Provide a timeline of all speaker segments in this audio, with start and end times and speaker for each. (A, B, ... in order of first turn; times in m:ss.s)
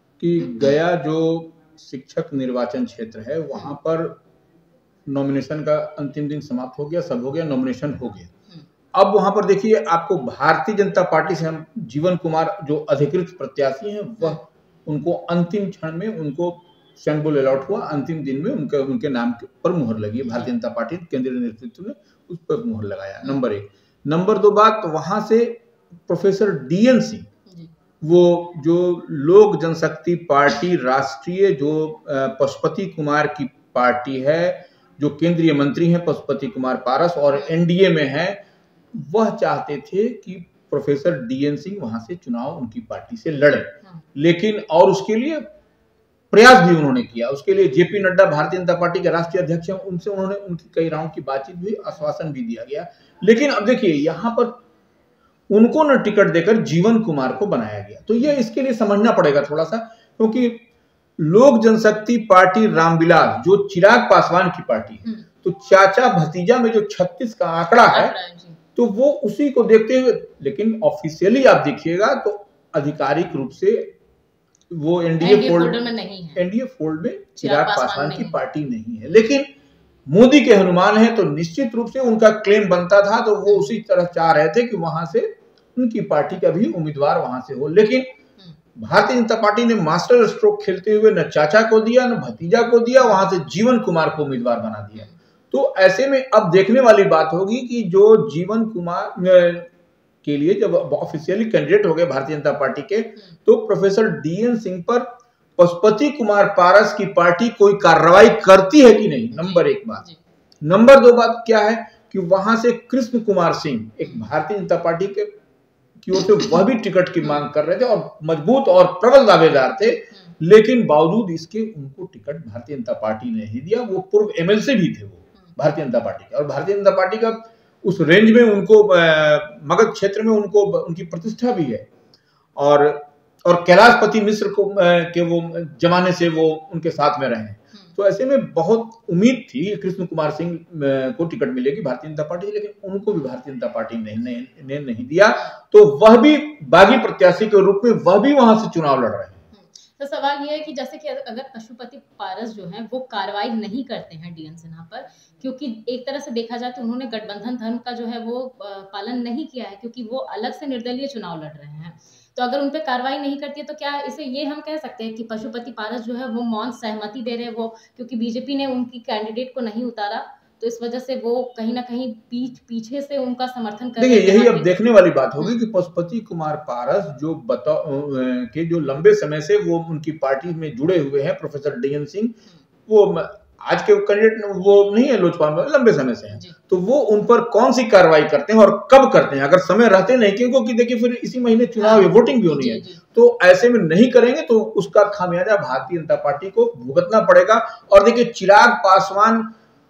0:00.2-0:04.2 A
0:05.1-0:08.3 A
0:08.9-0:27.3 A
0:20.2-0:20.5 B
0:28.0-0:38.4 A
0:38.9-0:45.4 A
0:46.3-0:54.6 A
0:55.5-1:00.7 A
1:01.2-1:08.2 A
1:07.9-1:08.6 B
1:08.8-1:13.9 A
1:14.7-1:15.8 A
1:15.2-1:16.4 B
1:16.4-1:19.5 A
1:17.4-1:18.4 B
1:20.1-1:28.1 A
1:28.8-1:39.7 A
1:40.2-1:50.0 A
1:49.3-1:50.2 B
1:50.6-1:55.3 A
1:54.0-1:54.3 B
1:56.0-2:11.9 A
1:59.9-2:00.3 B
2:12.6-2:29.4 A
2:29.5-2:54.7 B
2:54.0-3:19.5 A
3:11.8-3:13.0 B